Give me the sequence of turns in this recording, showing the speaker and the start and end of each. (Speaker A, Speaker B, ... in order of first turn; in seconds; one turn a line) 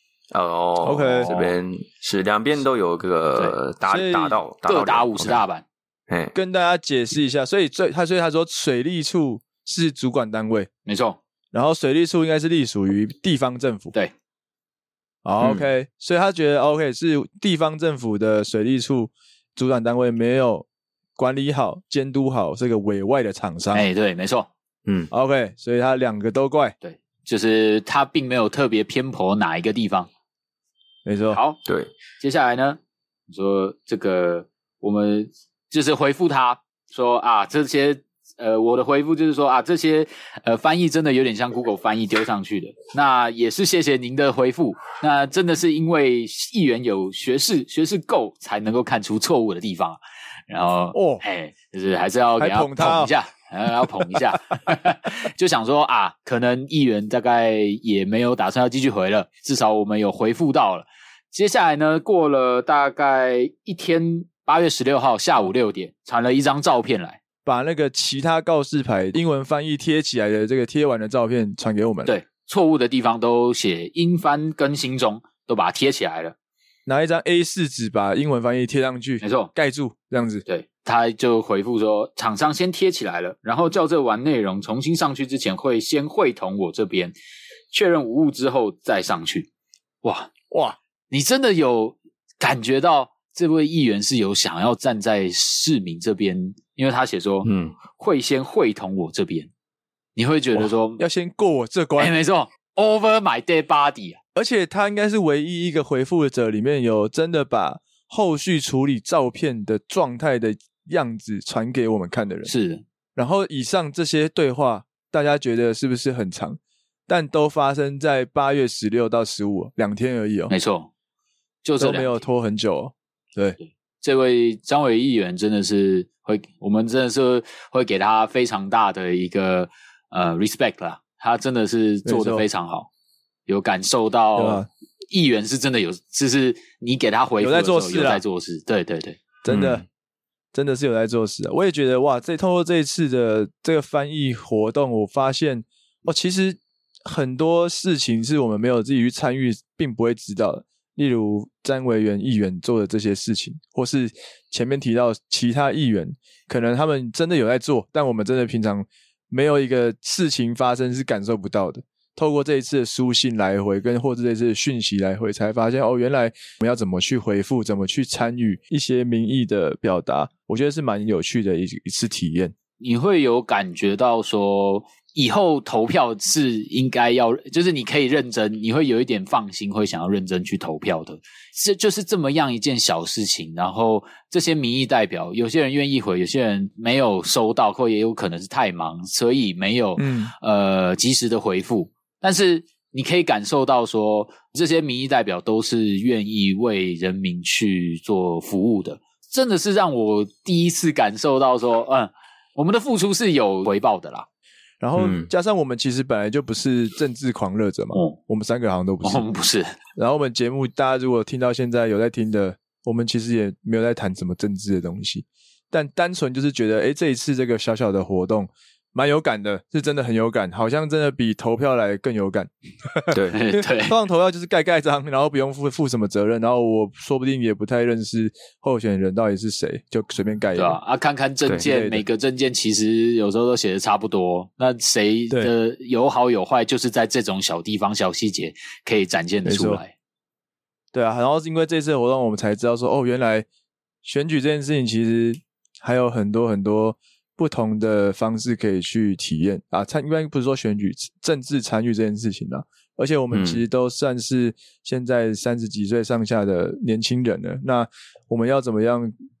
Speaker A: 0.3-5.4
Speaker B: 0.8-1.3
Speaker C: 1.2-1.6
Speaker B: 3.9-4.4
Speaker C: 4.6-5.6
Speaker A: 6.1-6.3
Speaker B: 6.3-10.7
Speaker C: 10.8-11.2
Speaker B: 11.5-13.9
Speaker B: 15.2-23.8
Speaker C: 23.7-24.5
Speaker B: 25.1-26.7
Speaker C: 26.8-30.1
Speaker B: 31.0-31.4
Speaker C: 31.3-31.6
Speaker A: 31.6-31.9
Speaker C: 32.2-67.2
Speaker B: 50.9-51.2
Speaker B: 52.4-53.1
Speaker B: 67.4-72.1
Speaker C: 72.0-76.3
Speaker B: 76.8-80.4
Speaker C: 79.2-79.5
Speaker C: 80.5-87.1
Speaker C: 87.7-89.5
Speaker C: 90.0-90.3
Speaker B: 90.5-90.8
Speaker C: 91.1-99.5
Speaker A: 97.4-97.8
Speaker C: 100.2-101.0
Speaker B: 100.6-102.1
Speaker C: 102.0-104.2
Speaker B: 104.3-112.5
Speaker C: 112.5-112.8
Speaker B: 113.2-120.5
Speaker C: 120.5-120.9
Speaker C: 121.6-122.2
Speaker B: 121.8-123.6
Speaker C: 123.6-132.9
Speaker B: 132.0-132.4
Speaker C: 133.5-139.2
Speaker B: 134.3-134.7
Speaker B: 137.4-138.2
Speaker B: 139.4-139.8
Speaker A: 139.5-139.8
Speaker B: 140.5-172.5
Speaker C: 172.8-204.2
Speaker B: 190.0-190.3
Speaker B: 204.8-209.2
Speaker A: 205.0-205.3
Speaker C: 207.9-208.2
Speaker C: 209.0-209.8
Speaker B: 210.0-230.8
Speaker A: 223.1-223.4
Speaker C: 223.3-223.9
Speaker C: 230.6-239.9
Speaker B: 231.6-232.0
Speaker B: 239.4-239.8
Speaker B: 240.9-243.5
Speaker B: 244.0-259.1
Speaker A: 253.3-253.6